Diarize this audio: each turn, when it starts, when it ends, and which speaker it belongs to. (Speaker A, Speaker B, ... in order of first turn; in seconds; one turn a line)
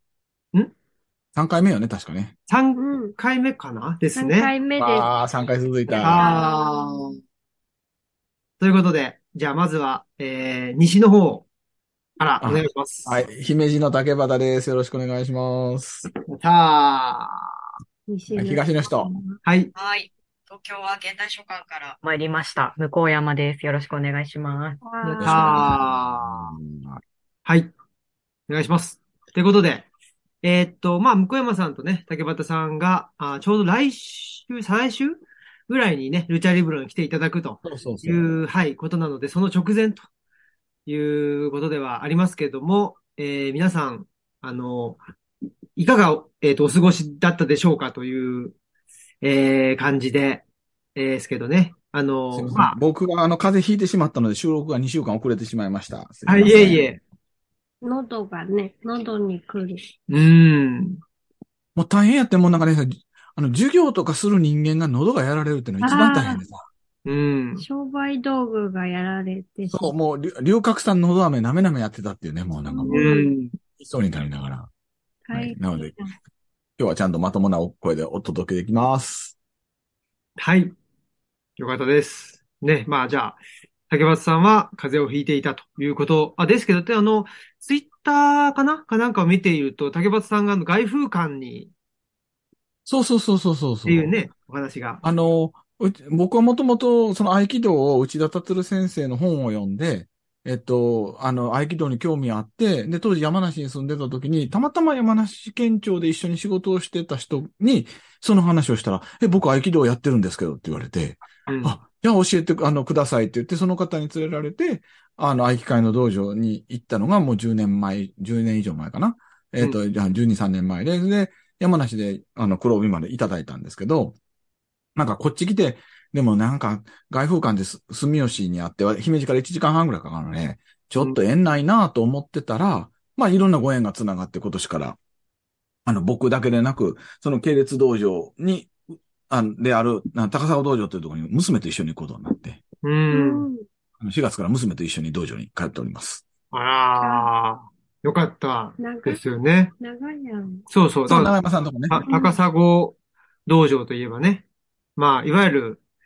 Speaker A: 1.3-2.3
Speaker B: 2.5-4.5
Speaker C: 2.8-3.1
Speaker C: 4.2-5.1
Speaker A: 4.8-6.4
Speaker C: 5.9-7.0
Speaker B: 5.9-7.0
Speaker B: 8.6-11.4
Speaker B: 12.2-13.2
Speaker A: 12.4-16.1
Speaker B: 16.3-17.5
Speaker C: 18.1-19.4
Speaker A: 18.3-19.1
Speaker B: 19.4-19.7
Speaker D: 19.7-22.0
Speaker E: 22.0-24.8
Speaker C: 24.8-25.7
Speaker B: 25.0-26.6
Speaker A: 25.2-27.0
Speaker B: 27.4-27.7
Speaker B: 28.5-29.9
Speaker B: 30.4-40.0
Speaker A: 37.6-38.4
Speaker B: 40.9-45.0
Speaker B: 45.8-48.5
Speaker B: 49.2-50.4
Speaker B: 50.9-52.8
Speaker A: 52.3-56.9
Speaker B: 56.2-57.0
Speaker C: 57.8-59.8
Speaker B: 60.1-61.0
Speaker A: 61.8-66.6
Speaker C: 65.8-66.4
Speaker B: 67.0-67.6
Speaker C: 67.6-69.9
Speaker A: 69.7-73.1
Speaker C: 72.7-73.3
Speaker B: 72.8-73.5
Speaker A: 73.8-74.7
Speaker C: 75.3-76.1
Speaker A: 75.3-75.9
Speaker A: 76.8-79.3
Speaker B: 80.4-80.7
Speaker B: 81.6-91.7
Speaker A: 92.8-94.1
Speaker B: 93.8-95.0
Speaker A: 95.0-124.2
Speaker B: 111.5-111.8
Speaker A: 125.0-135.0
Speaker A: 135.8-138.7
Speaker A: 139.3-142.6
Speaker B: 142.8-143.5
Speaker C: 143.1-143.7
Speaker A: 144.0-146.2
Speaker B: 146.5-149.7
Speaker C: 147.0-147.3
Speaker C: 148.8-149.2
Speaker C: 149.8-150.7
Speaker B: 150.7-151.3
Speaker A: 151.1-152.0
Speaker B: 151.9-154.4
Speaker C: 152.0-152.4
Speaker B: 155.0-155.8